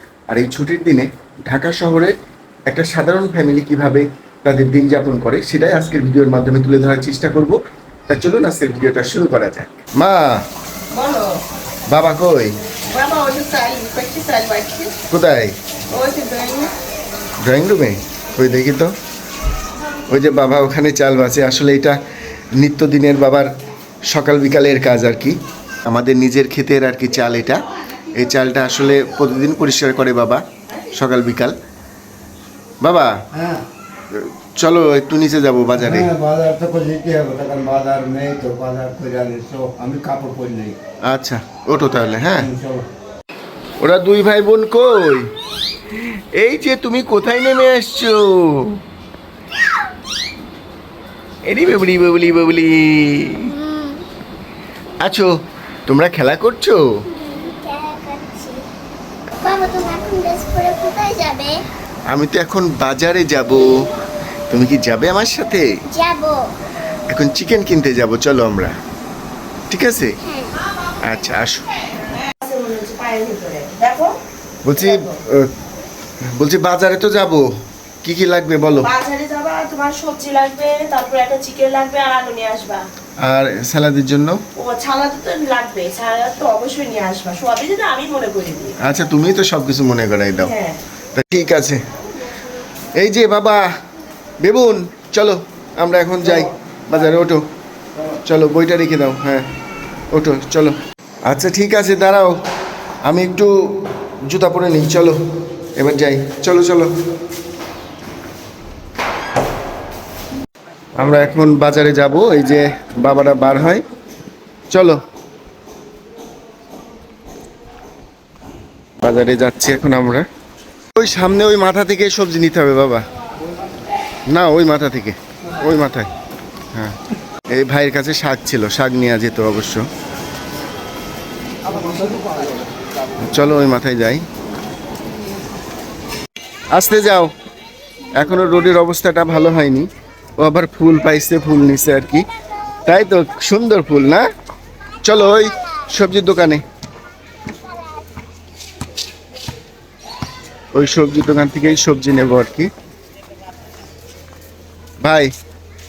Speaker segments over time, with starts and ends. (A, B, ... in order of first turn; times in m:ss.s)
0:00.3-0:02.2 A
0:02.7-0:07.6 A
0:08.1-0:10.4 A
0:10.9-0:11.4 B
0:11.9-0:12.6 A
0:12.9-0:15.0 B
0:15.1-0:15.6 A
0:15.9-0:16.7 B
0:17.4-0:18.9 A
0:20.1-0:22.0 A
0:22.6-0:23.5 A
0:24.1-0:31.6 A
0:32.8-0:33.2 A
0:33.3-0:33.6 C
0:34.1-0:36.1 A
0:35.8-0:40.8 C
0:41.0-0:42.5 A
0:42.4-0:42.8 C
0:43.8-0:45.3 A
0:45.9-0:48.8 A
0:51.5-0:53.6 A
0:53.5-0:54.0 D
0:55.0-0:55.3 A
0:55.9-0:56.8 A
0:57.1-0:58.6 D
0:59.4-1:01.6 D
1:02.1-1:03.7 A
1:04.5-1:05.7 A
1:05.9-1:06.4 D
1:07.1-1:08.8 A
1:09.7-1:10.2 A
1:11.0-1:11.7 A
1:12.4-1:14.2 B
1:14.6-1:15.5 A
1:16.4-1:17.5 A
1:18.0-1:18.9 A
1:18.8-1:22.9 B
1:23.2-1:24.4 A
1:24.6-1:28.8 B
1:28.8-1:30.5 A
1:30.4-1:30.8 B
1:31.2-1:31.8 A
1:33.0-1:33.7 A
1:34.4-1:37.4 A
1:38.2-1:39.5 A
1:40.1-1:42.4 A
1:43.0-1:43.5 A
1:44.3-1:45.2 A
1:45.8-1:46.9 A
1:51.0-1:53.8 A
1:54.7-1:55.0 A
1:59.0-2:00.3 A
2:01.0-2:03.1 A
2:04.3-2:06.1 A
2:07.5-2:09.9 A
2:11.8-2:12.3 C
2:13.2-2:14.2 A
2:16.7-2:17.3 A
2:18.1-2:22.2 A
2:22.9-2:24.2 A
2:25.0-2:26.6 A
2:30.7-2:32.7 A
2:35.0-2:35.3 A